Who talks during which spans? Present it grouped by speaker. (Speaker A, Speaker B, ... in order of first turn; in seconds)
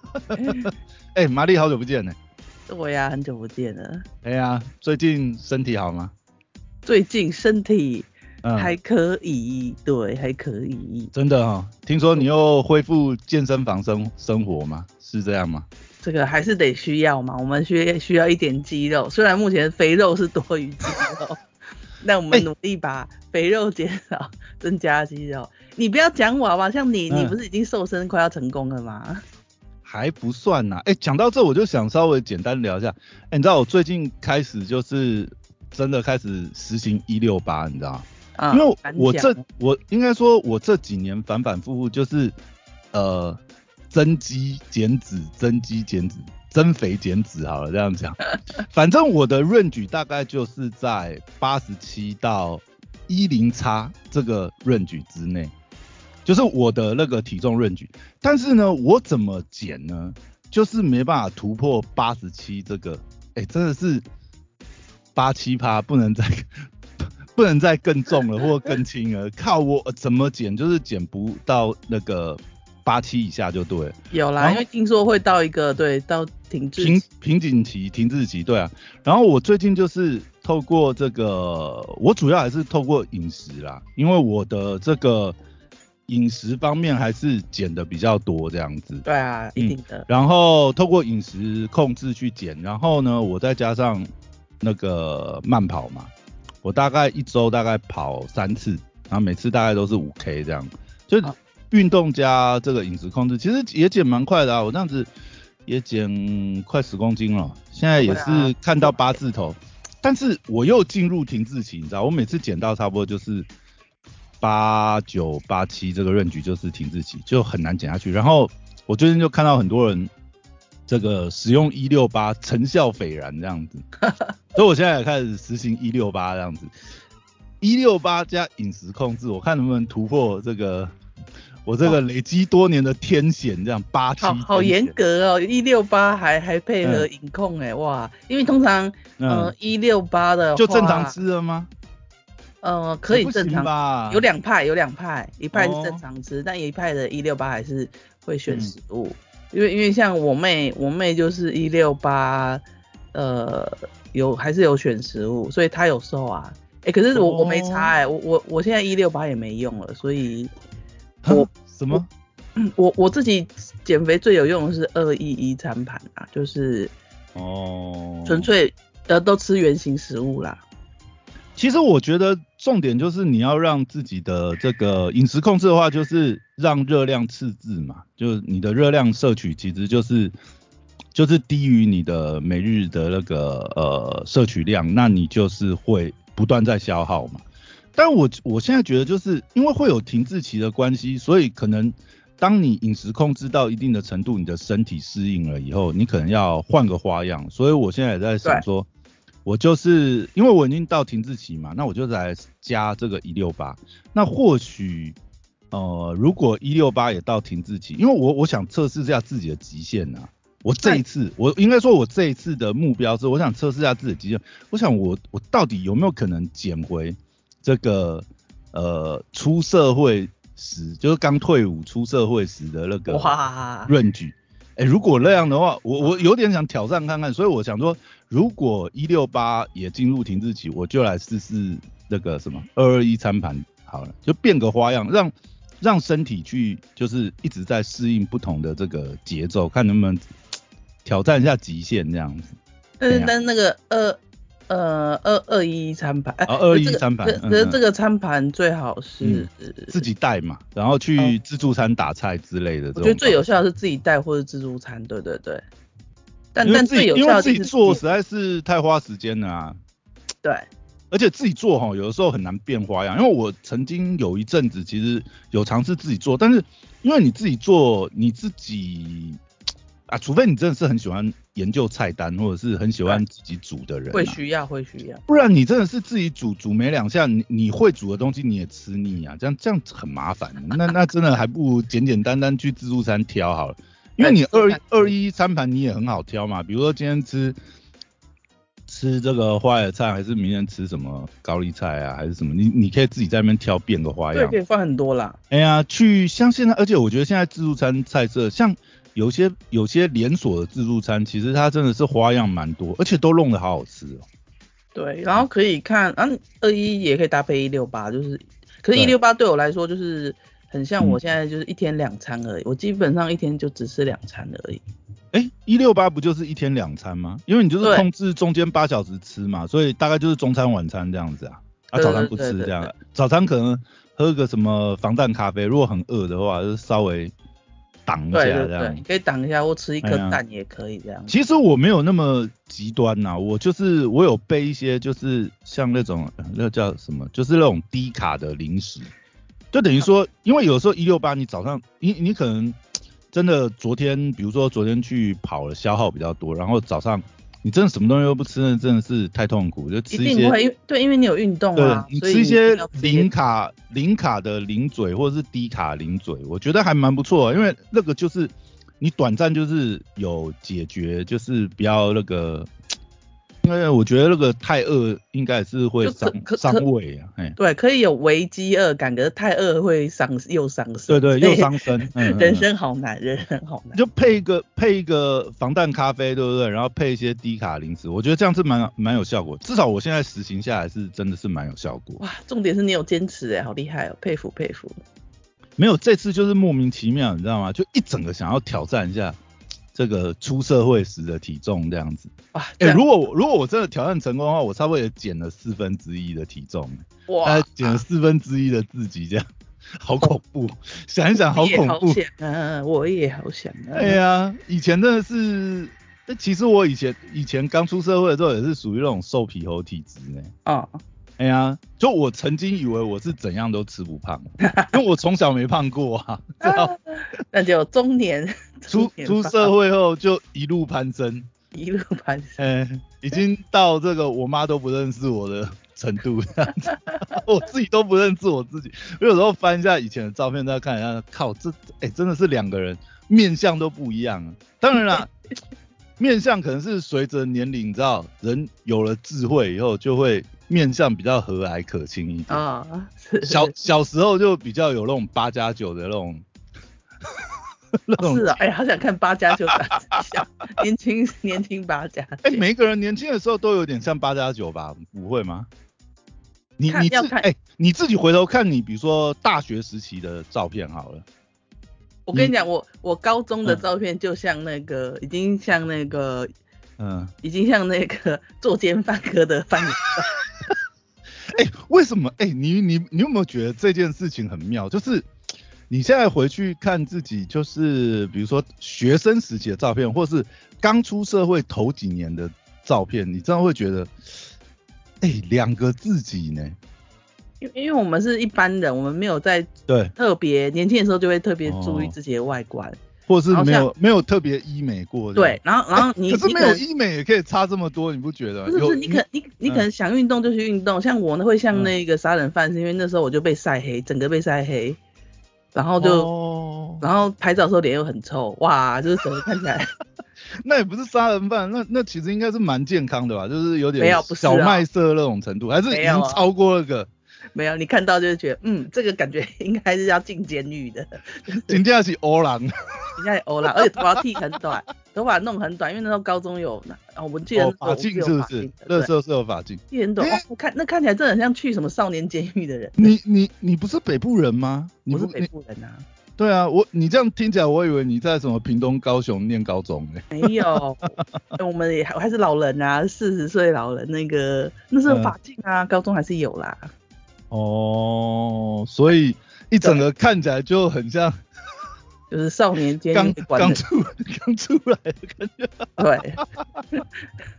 Speaker A: 0.2-2.2, 4.2-6.1, 8.4-8.8, 11.1-15.7, 27.1-27.4, 29.9-42.3, 42.9-43.4, 43.9-55.5, 56.2-64.0, 65.2-74.6, 76.8-85.4, 86.1-89.0, 89.6-94.1, 94.6-96.1, 96.6-105.1, 105.7-113.5, 114.4-120.1, 120.9-123.8, 124.5-126.7, 127.6-130.9, 131.7-134.9, 136.8-137.1, 139.2-139.5, 140.6-141.7, 143.1-144.2, 145.5-146.0, 148.5-148.8, 157.1-157.9, 161.2-162.1, 167.3-168.5, 171.6-180.3, 181.1-187.4, 188.0-198.9, 199.4-205.2, 205.7-240.2, 241.1-242.6, 246.5-247.8, 249.2-253.4, 256.6-259.8, 261.1-269.4, 270.1-274.4, 275.3-287.6, 288.9-294.6, 295.5-304.2, 315.3-327.3, 328.1-329.0, 330.0-330.4, 331.3-339.1, 339.7-342.8, 343.3-350.5, 351.8-362.7, 363.6-367.6, 371.1-372.7, 373.9-382.2, 385.8-389.4, 389.9-399.5, 400.0-402.2, 403.9-410.5, 411.4-416.9, 418.9-421.5, 422.6-435.3, 436.2-442.6, 443.4-446.4, 448.1-448.6, 449.7-450.2, 452.4-455.7, 456.8-461.3, 467.0-467.3, 471.5-475.3, 475.9-484.1, 485.2-486.8, 489.9-490.1, 491.6-492.1, 493.3-499.9, 506.0-507.0, 510.6-517.1, 521.7-523.2, 527.5-530.4, 533.0-535.5, 536.4-541.2, 545.1-545.3, 547.5-551.4, 553.1-556.5
Speaker B: 0.3-0.7, 2.7-4.0, 6.9-11.1, 16.0-21.4, 22.0-29.2, 38.4-39.4, 74.1-77.0, 89.0-90.1, 108.0-108.5, 124.1-124.4, 134.2-141.2, 142.6-152.6, 153.1-160.5, 161.3-162.0, 162.6-166.9, 168.3-170.6, 223.1-223.9, 243.0-250.1, 252.9-255.6, 256.5-258.0, 274.1-275.2, 284.2-285.1, 294.3-295.4, 304.9-314.8, 322.0-322.9, 328.3-331.3, 350.1-353.3, 366.0-366.8, 367.6-374.0, 382.2-385.0, 392.5-393.0, 397.3-398.0, 401.5-404.2, 410.7-411.0, 414.6-415.0, 416.6-419.7, 421.7-422.7, 442.5-443.7, 448.2-452.6, 456.9-457.5, 462.3-466.5, 467.4-470.4, 487.6-493.0, 493.5-493.9, 495.4-496.8, 498.7-505.0, 505.7-506.3, 507.0-509.9, 514.0-514.9, 515.9-516.4, 517.5-521.8, 523.2-529.1, 529.9-533.1, 535.1-536.0, 540.3-546.9, 552.3-553.8, 556.0-556.4